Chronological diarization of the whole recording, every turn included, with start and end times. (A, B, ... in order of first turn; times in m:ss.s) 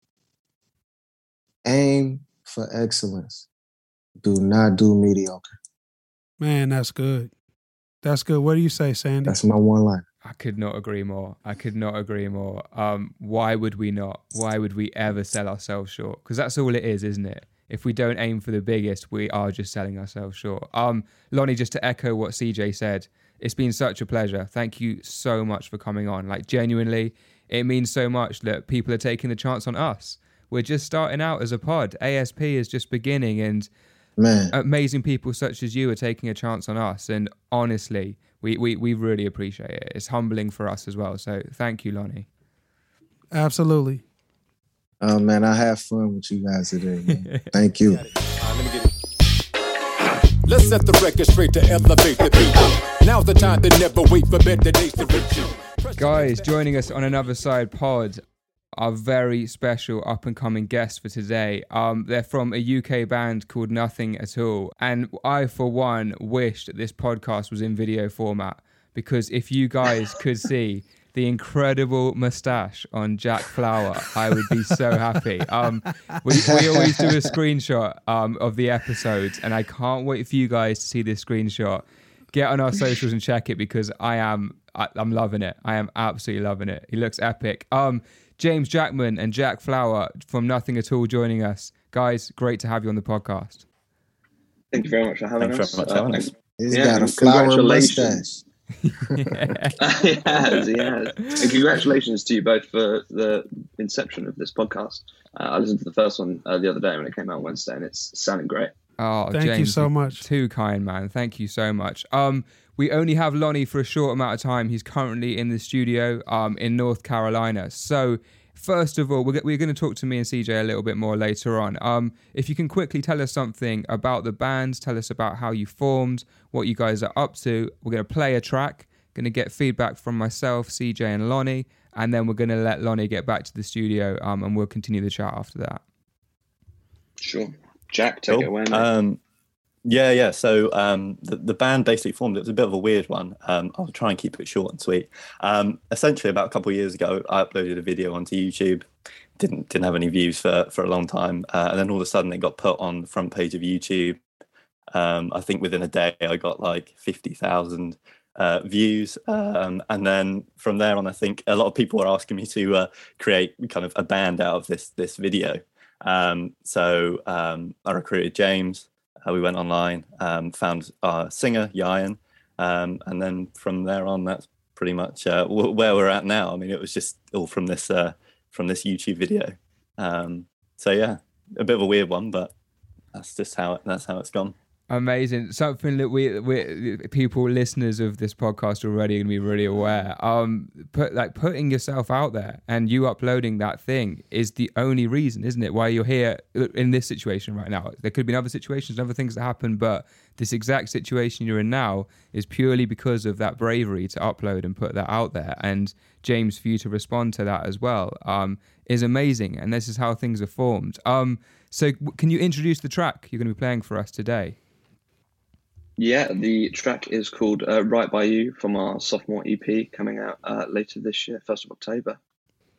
0:01.6-0:03.5 A
0:04.2-0:05.5 A
0:06.4-0:07.3 B
0:08.0-0:09.4 B
0:09.3-0:10.0 A
0:10.2-0:33.7 C
0:34.2-0:34.5 A
0:34.5-0:42.3 C
0:43.3-0:44.0 B
0:45.0-0:48.0 A
0:47.2-0:47.5 C
0:47.9-0:48.9 D
0:50.4-0:56.6 D
0:56.0-0:58.2 C
0:58.8-1:33.7 C
1:16.4-1:17.2 A
1:34.7-1:38.2 E
1:35.4-1:36.3 F
1:36.6-1:38.4 A
1:38.8-1:39.8 C
1:39.8-1:48.7 E
1:41.2-1:41.6 C
1:49.0-2:15.8 C
1:49.3-1:50.2 B
2:17.2-2:18.9 E
2:18.3-2:19.2 F
2:19.8-2:28.9 F
2:29.4-2:34.2 F
2:34.9-3:02.5 F
3:03.1-3:04.6 F
3:04.9-3:34.6 C
3:36.0-3:42.2 E